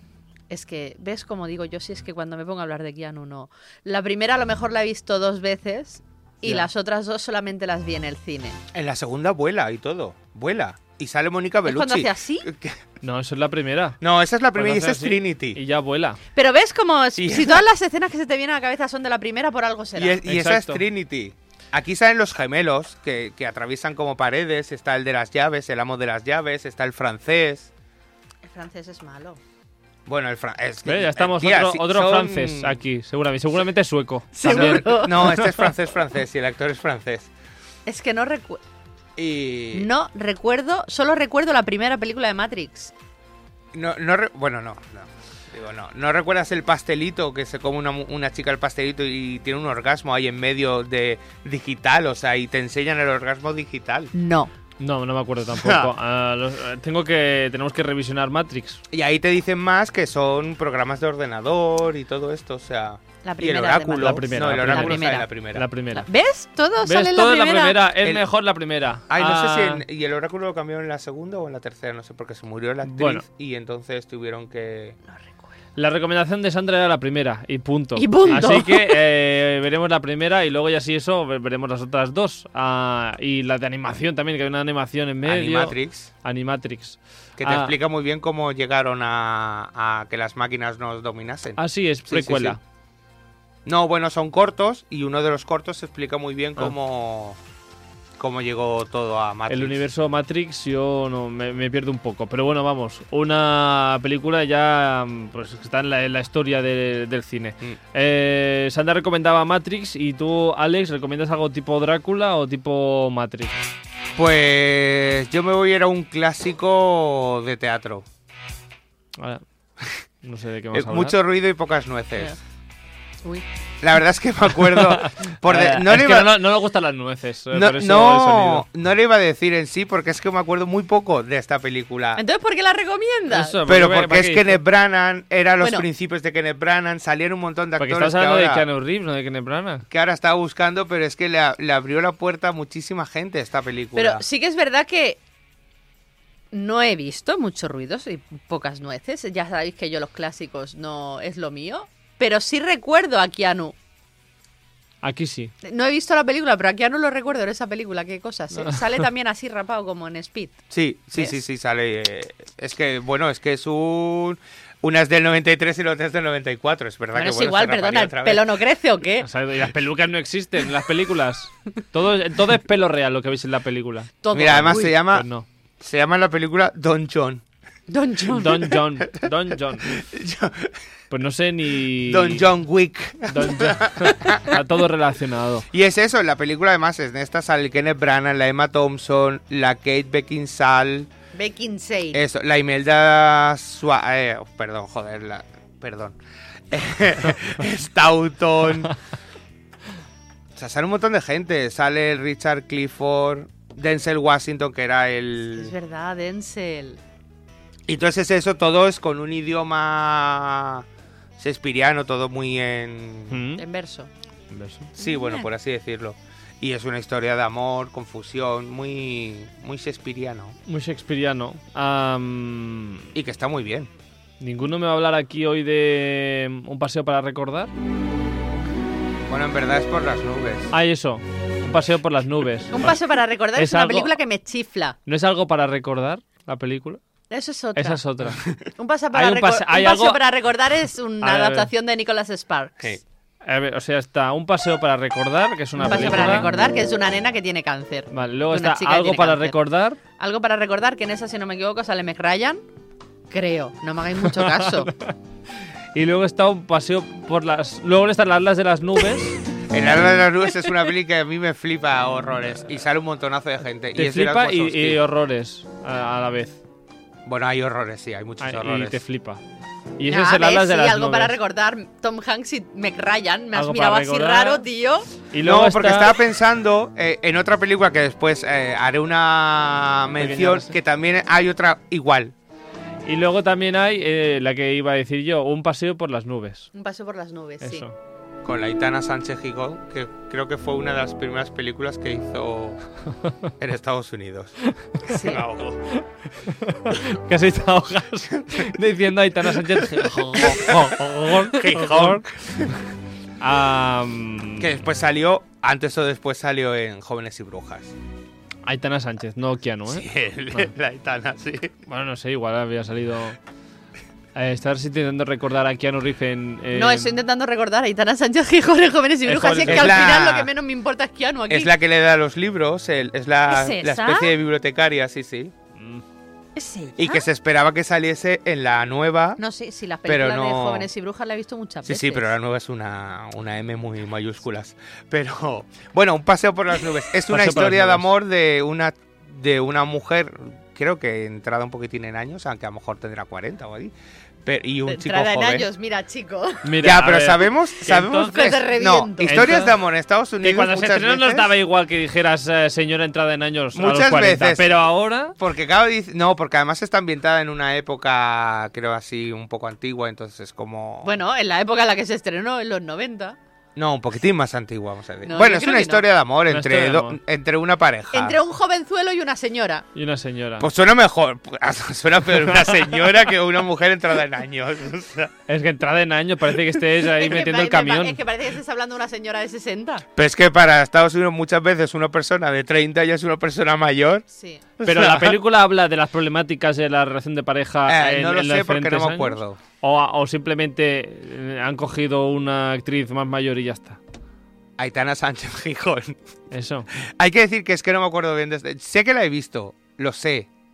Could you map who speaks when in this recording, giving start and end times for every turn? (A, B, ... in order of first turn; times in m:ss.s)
0:00.5-0:08.6 A
0:08.7-0:12.8 B
0:11.7-0:12.5 A
0:13.0-0:14.0 C
0:14.0-0:15.6 B
0:14.5-0:16.2 C
0:16.4-0:20.2 A
0:17.2-0:17.6 B
0:20.0-0:27.7 B
0:20.3-0:20.8 C
0:28.4-0:29.4 A
0:30.1-0:32.8 B
0:30.9-0:35.2 C
0:34.4-0:35.5 A
0:34.4-0:37.3 B
0:37.9-0:38.6 A
0:39.2-0:39.9 B
0:39.7-0:42.9 A
0:43.7-0:54.1 B
0:54.1-0:54.5 A
0:54.8-0:58.8 C
0:55.5-0:55.9 B
0:58.9-1:05.7 B
1:03.2-1:05.3 A
1:04.0-1:06.1 C
1:05.9-1:07.8 A
1:06.8-1:09.8 C
1:09.1-1:15.0 B
1:12.8-1:13.2 C
1:15.1-1:15.5 A
1:15.8-1:27.7 C
1:18.0-1:19.0 A
1:25.2-1:26.1 B
1:27.4-1:32.6 B
1:31.6-1:32.6 C
1:33.7-1:37.4 B
1:38.2-1:39.8 B
1:39.5-1:53.6 C
1:54.2-1:58.0 B
1:59.2-1:59.4 C
2:00.2-2:01.2 C
2:00.7-2:02.4 B
2:03.8-2:06.4 B
2:04.8-2:08.7 C
2:07.5-2:12.2 B
2:12.2-2:13.6 A
2:13.3-2:14.6 C
2:13.6-2:18.6 B
2:15.6-2:15.9 A
2:17.8-2:19.8 C
2:19.9-2:24.2 B
2:24.0-2:25.2 A
2:26.5-2:33.8 A
2:35.0-2:35.5 C
2:35.6-2:40.6 A
2:40.7-2:48.5 B
2:47.1-2:49.3 A
2:49.2-2:55.5 C
2:54.2-2:55.0 A
2:54.3-2:55.3 B
2:55.8-2:57.4 B
2:57.9-2:58.7 A
2:58.3-3:00.0 C
2:59.9-3:00.7 B
3:01.1-3:02.5 C
3:02.1-3:04.6 B
3:03.3-3:05.7 C
3:05.7-3:11.1 B
3:11.3-3:12.2 A
3:12.1-3:16.2 B
3:16.7-3:18.9 B
3:20.6-3:25.7 B
3:25.6-3:27.0 A
3:27.9-3:30.8 B
3:31.4-3:33.4 B
3:33.3-3:33.6 C
3:33.6-3:34.1 A
3:34.5-3:34.9 C
3:35.0-3:40.6 B
3:35.0-3:35.5 A
3:40.7-3:43.1 C
3:43.1-3:43.9 B
3:44.4-3:47.7 C
3:49.3-3:50.7 B
3:50.7-3:53.0 C
3:52.7-3:55.0 A
3:53.6-3:54.1 C
3:55.1-3:57.0 C
3:57.3-3:58.0 A
3:57.8-3:58.4 C
3:58.8-4:03.0 A
3:59.1-4:00.2 C
4:01.2-4:01.7 C
4:03.4-4:06.5 C
4:05.8-4:09.6 A
4:08.1-4:10.0 C
4:10.2-4:12.6 A
4:13.3-4:14.9 A
4:14.2-4:15.2 C
4:15.9-4:19.4 C
4:19.7-4:25.0 B
4:24.0-4:26.6 C
4:27.3-4:29.0 B
4:28.4-4:29.4 C
4:30.0-4:31.4 C
4:30.1-4:35.1 A
4:33.5-4:34.6 C
4:35.3-4:36.2 C
4:35.4-4:42.4 B
4:40.2-4:40.8 C
4:43.1-4:46.7 C
4:46.7-4:47.8 A
4:47.6-4:48.0 C
4:48.4-4:52.8 B
4:53.6-4:55.8 B
4:54.7-4:55.1 C
4:55.0-4:55.4 A
4:55.9-5:02.3 C
4:59.9-5:02.7 B
5:03.4-5:04.7 C
5:04.6-5:07.9 B
5:08.6-5:10.7 C
5:09.9-5:11.7 B
5:11.9-5:13.4 C
5:14.4-5:17.2 C
5:16.7-5:21.7 A
5:19.3-5:20.2 C
5:19.7-5:20.5 B
5:21.5-5:25.5 B
5:23.5-5:24.3 A
5:25.8-5:26.0 C
5:26.6-5:27.2 A
5:27.0-5:29.4 B
5:29.4-5:32.3 A
5:30.1-5:30.9 B
5:31.8-5:43.9 B
5:37.3-5:38.1 C
5:44.4-5:45.7 B
5:44.9-5:46.7 A
5:46.6-5:48.6 C
5:46.8-5:51.5 B
5:48.1-5:49.6 A
5:49.2-5:49.8 C
5:50.4-5:55.4 C
5:53.7-5:54.7 B
5:55.4-6:01.1 B
6:01.0-6:03.4 A
6:03.8-6:08.4 B
6:05.2-6:06.0 A
6:06.5-6:07.2 C
6:08.1-6:09.8 A
6:10.0-6:10.7 C
6:10.6-6:15.3 B
6:12.6-6:12.8 C
6:15.5-6:18.2 C
6:17.1-6:20.1 A
6:20.2-6:24.2 B
6:24.3-6:24.6 A
6:24.8-6:25.4 B
6:24.8-6:34.0 C
6:27.9-6:29.6 B
6:34.8-6:36.2 B
6:36.5-6:36.9 C
6:36.9-6:40.5 B